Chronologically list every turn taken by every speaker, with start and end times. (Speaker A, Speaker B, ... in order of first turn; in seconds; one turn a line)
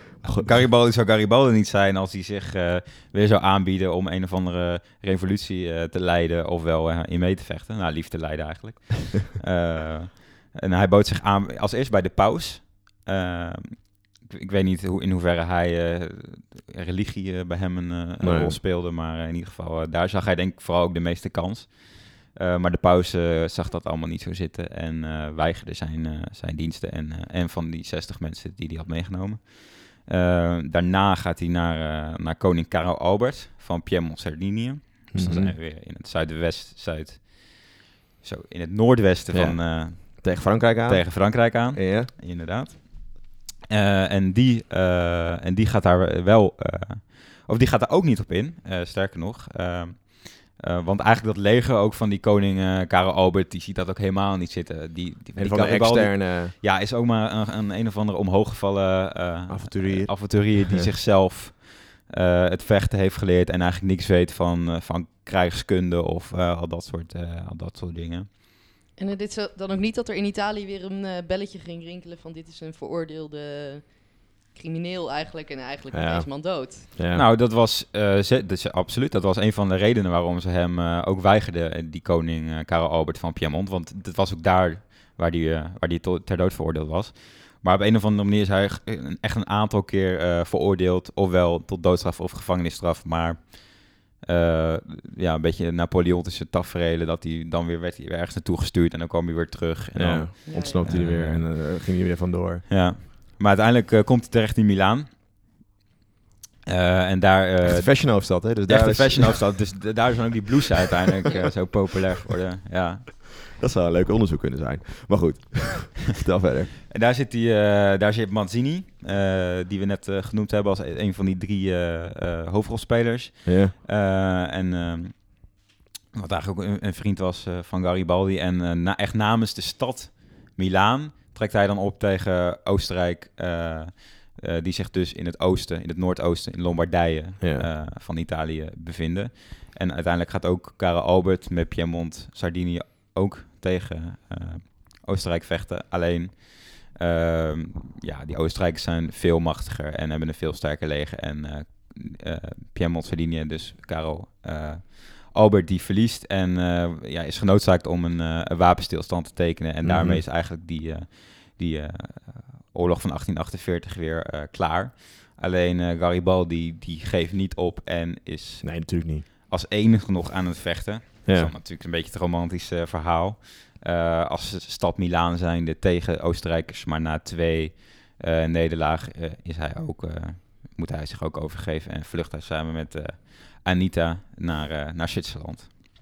Speaker A: 0.2-68.3
Speaker B: 0.2-0.5
Speaker B: 18.2-18.6
Speaker B: 35.1-35.5
Speaker B: 39.3-42.1
Speaker B: 55.4-56.5
Speaker B: 59.5-60.9
Speaker C: 69.0-76.9
Speaker B: 75.9-76.3
Speaker B: 76.9-77.2
Speaker A: 77.1-101.5
Speaker B: 100.0-102.7
Speaker C: 100.5-100.9
Speaker A: 102.7-105.1
Speaker A: 106.7-113.1
Speaker B: 107.6-109.5
Speaker B: 113.4-116.7
Speaker A: 116.9-125.5
Speaker B: 123.4-123.7
Speaker A: 126.1-185.7
Speaker B: 137.4-137.7
Speaker B: 159.8-160.2
Speaker B: 168.6-169.2
Speaker B: 171.2-171.5